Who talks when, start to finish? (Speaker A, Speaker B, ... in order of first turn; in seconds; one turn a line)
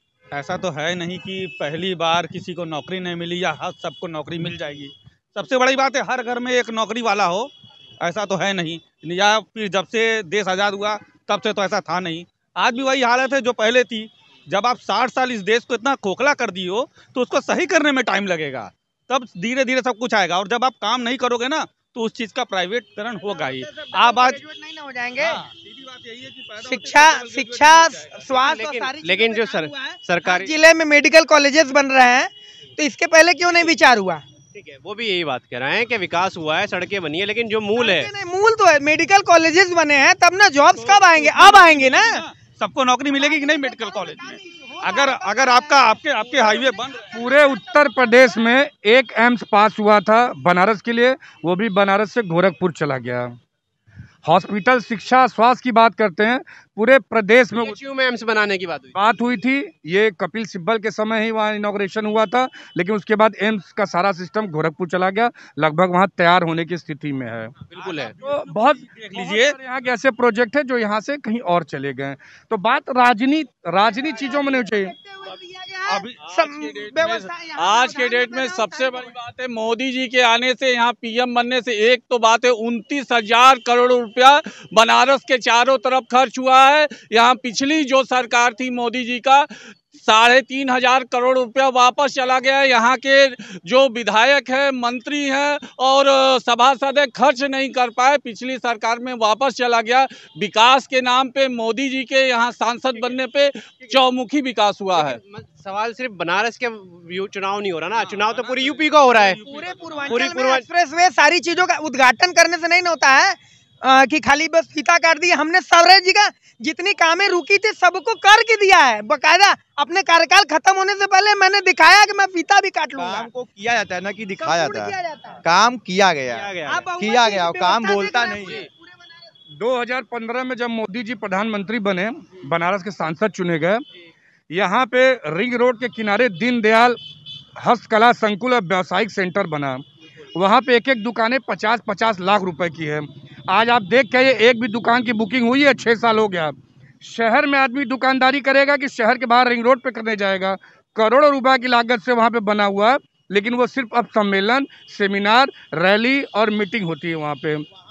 Speaker A: 0.3-24.4
Speaker B: 23.2-25.4
Speaker A: 25.2-28.3
Speaker B: 26.6-34.2
Speaker C: 28.3-30.5
Speaker C: 34.5-38.1
Speaker B: 37.8-42.2
Speaker A: 40.7-47.2
Speaker B: 43.2-47.7
Speaker D: 47.1-53.3
Speaker D: 54.2-57.8
Speaker C: 57.5-58.9
Speaker D: 58.9-67.7
Speaker C: 67.7-68.1
Speaker A: 67.7-69.6
Speaker D: 68.2-74.9
Speaker B: 73.9-79.1
Speaker A: 75.8-76.3
Speaker E: 76.3-105.2
Speaker C: 104.9-109.4
Speaker A: 107.9-110.2
Speaker B: 109.4-123.3
Speaker C: 110.1-110.6
Speaker F: 123.0-128.7
Speaker B: 124.4-125.4
Speaker C: 126.3-126.9
Speaker B: 126.7-129.0
Speaker C: 128.4-128.7
Speaker D: 129.6-133.8
Speaker D: 134.5-137.0
Speaker D: 137.6-139.8
Speaker D: 140.4-157.6